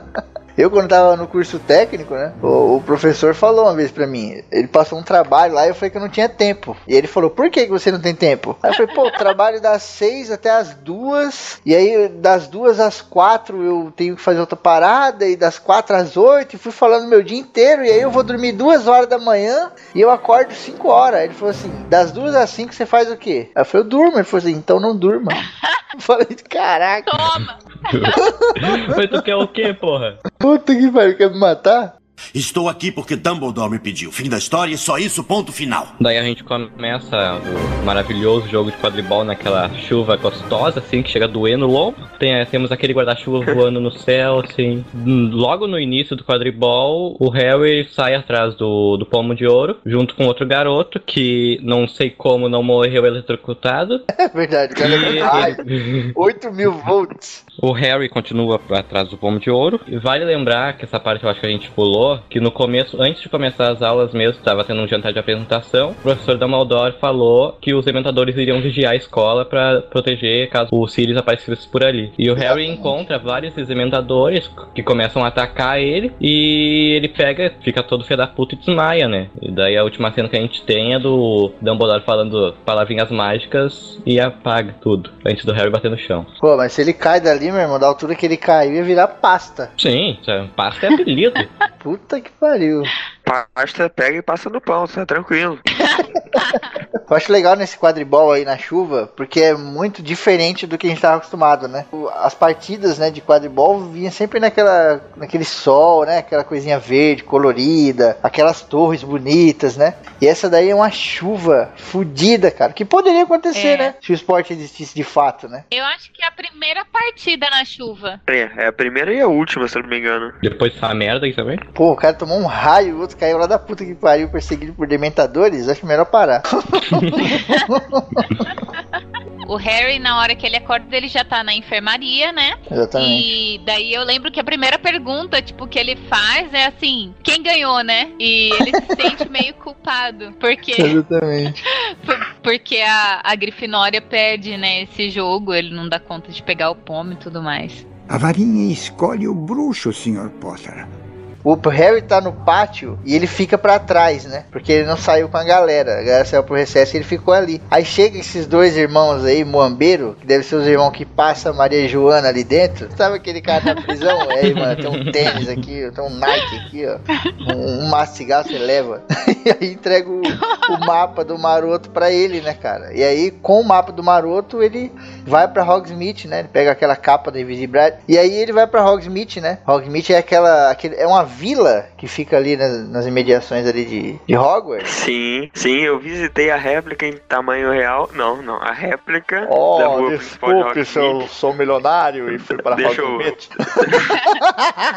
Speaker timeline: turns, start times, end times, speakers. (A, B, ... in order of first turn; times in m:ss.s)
0:00.6-0:25.4 A
0:25.4-0:25.8 B
0:25.9-0:27.1 A
0:27.1-0:28.2 B
0:27.8-0:30.2 C
0:28.2-0:29.2 A
0:30.4-0:31.9 A
0:32.3-0:35.9 D
0:36.0-0:54.0 C
0:54.2-0:55.6 A
0:54.8-0:56.1 C
0:55.0-0:55.4 E
0:56.1-0:57.4 A
0:57.6-1:26.3 C
1:12.4-1:13.0 A
1:26.4-1:29.7 A
1:29.8-1:31.5 C
1:30.8-1:31.4 B
1:31.8-1:32.9 A
1:33.2-1:35.6 E
1:35.7-1:36.7 B
1:37.1-1:55.6 A
1:53.5-1:53.9 B
1:55.7-1:58.2 B
1:58.3-2:00.4 E
2:00.4-2:01.6 C
2:01.7-2:08.2 A
2:06.9-2:07.2 C
2:07.2-2:07.8 B
2:08.5-2:21.0 B
2:12.7-2:13.2 A
2:20.8-2:21.6 A
2:21.6-2:27.8 B
2:28.1-2:30.9 F
2:31.4-3:04.9 A
2:44.4-2:45.6 C
2:50.3-2:50.8 B
3:04.8-3:11.3 E
3:09.4-3:14.0 A
3:12.3-3:14.0 E